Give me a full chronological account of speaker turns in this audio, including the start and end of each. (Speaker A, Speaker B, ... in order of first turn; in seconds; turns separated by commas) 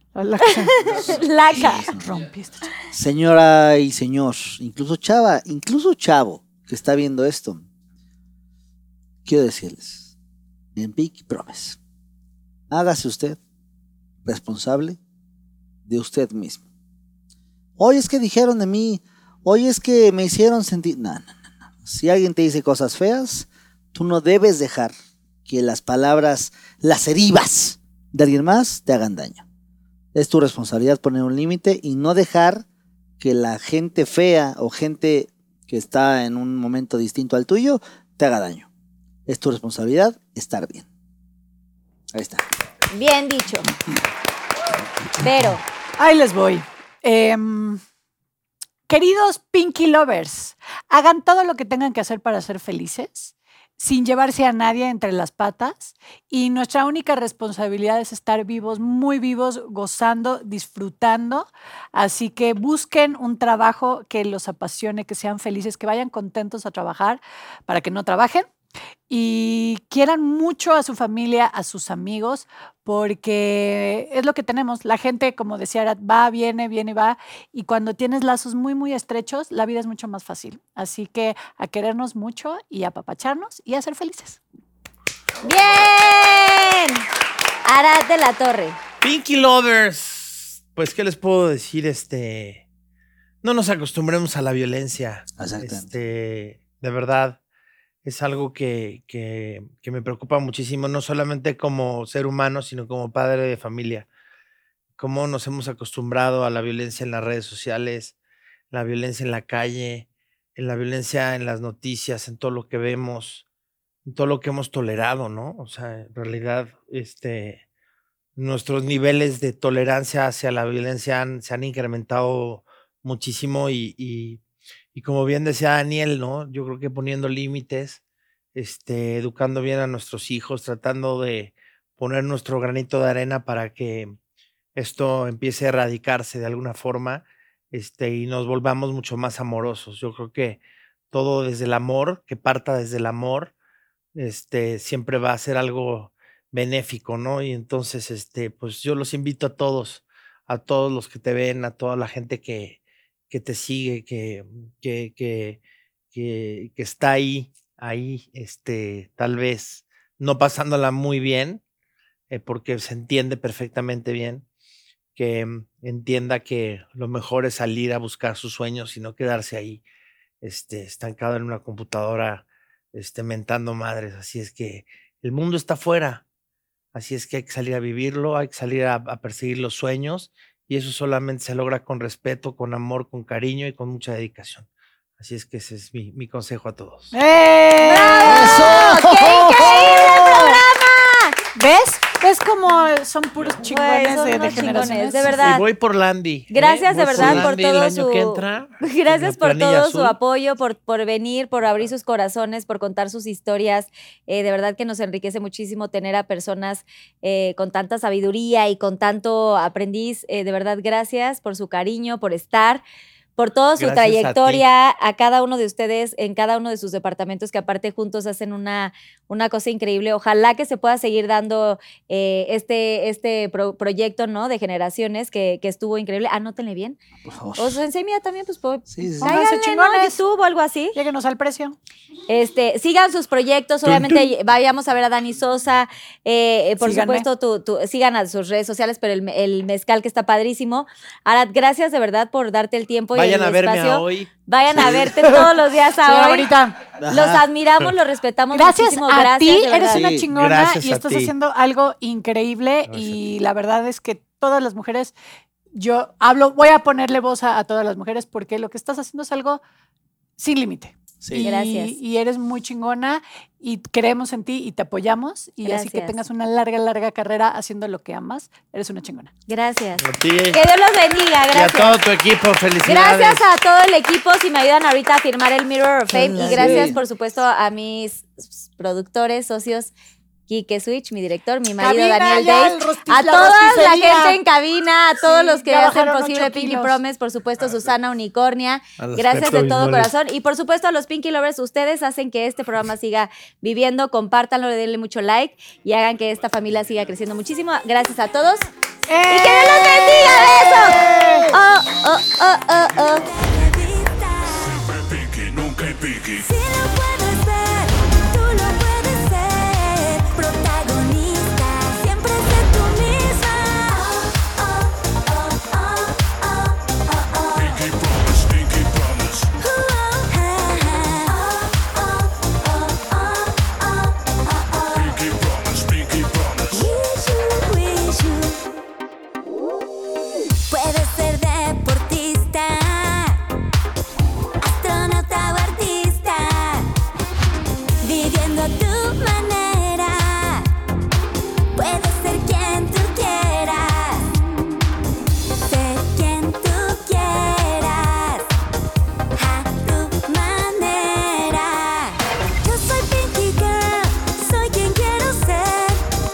Speaker A: 0.1-2.7, Speaker B: 0.5-1.9, Speaker C: 1.1-2.2, Speaker C: 2.9-7.7, Speaker C: 9.2-10.1, Speaker C: 10.8-11.8, Speaker C: 12.7-13.4, Speaker C: 14.3-15.0, Speaker C: 15.9-16.6, Speaker C: 17.8-24.9, Speaker C: 25.5-29.4, Speaker C: 30.1-32.6, Speaker C: 33.2-38.7, Speaker C: 39.3-40.9, Speaker C: 42.1-42.5, Speaker B: 42.9-43.7, Speaker B: 45.2-45.6, Speaker A: 46.0-47.8, Speaker A: 48.9-68.5, Speaker A: 69.1-84.4, Speaker B: 85.4-87.1, Speaker B: 87.7-88.8, Speaker D: 89.0-92.6, Speaker D: 93.4-97.4, Speaker C: 95.4-95.9, Speaker D: 98.0-104.1, Speaker D: 105.0-108.2, Speaker D: 108.7-113.5, Speaker D: 114.1-117.6, Speaker D: 118.4-124.4, Speaker D: 125.0-128.0, Speaker D: 128.6-134.1, Speaker D: 134.8-140.6, Speaker D: 141.1-143.5, Speaker D: 144.2-152.8, Speaker D: 153.3-155.6, Speaker D: 156.1-161.6, Speaker D: 162.3-164.4, Speaker D: 165.2-169.8, Speaker D: 170.4-176.2, Speaker D: 176.9-184.7, Speaker D: 185.2-187.1, Speaker A: 187.1-188.7, Speaker B: 187.8-191.4, Speaker C: 188.2-190.6, Speaker A: 191.6-195.4, Speaker B: 193.7-195.7, Speaker D: 194.5-200.2, Speaker B: 196.5-212.8, Speaker C: 197.1-197.5, Speaker B: 213.4-227.0, Speaker D: 213.8-214.6, Speaker C: 227.2-227.8, Speaker B: 227.6-231.0, Speaker C: 228.9-229.4, Speaker A: 229.2-230.2, Speaker A: 230.9-231.8, Speaker B: 232.3-246.5, Speaker D: 233.8-234.2, Speaker A: 236.8-237.3, Speaker D: 243.1-244.3, Speaker C: 244.7-245.4, Speaker A: 246.1-246.8, Speaker C: 247.0-247.5, Speaker B: 247.1-250.1, Speaker A: 248.5-255.2, Speaker C: 249.9-250.3, Speaker D: 250.3-251.3, Speaker D: 252.9-253.3, Speaker A: 255.7-259.6, Speaker A: 260.4-269.3, Speaker C: 261.2-261.5, Speaker B: 261.4-262.0, Speaker B: 265.6-266.2, Speaker B: 269.5-272.0, Speaker D: 270.0-270.6, Speaker D: 271.5-273.4, Speaker B: 272.9-279.9, Speaker C: 276.1-277.0, Speaker B: 280.5-298.7, Speaker A: 281.8-284.4, Speaker C: 282.3-284.3, Speaker A: 285.2-287.0, Speaker D: 289.0-290.1, Speaker A: 299.1-301.5, Speaker B: 299.3-303.3, Speaker C: 301.2-301.5, Speaker E: 303.1-304.9, Speaker F: 304.6-306.5, Speaker E: 306.4-317.8, Speaker F: 317.5-319.5, Speaker E: 319.6-325.2, Speaker F: 324.9-326.9, Speaker E: 326.7-328.6, Speaker E: 330.7-333.4, Speaker E: 334.6-336.9, Speaker E: 338.0-340.7, Speaker E: 341.8-344.4, Speaker E: 345.6-348.5, Speaker E: 349.4-356.0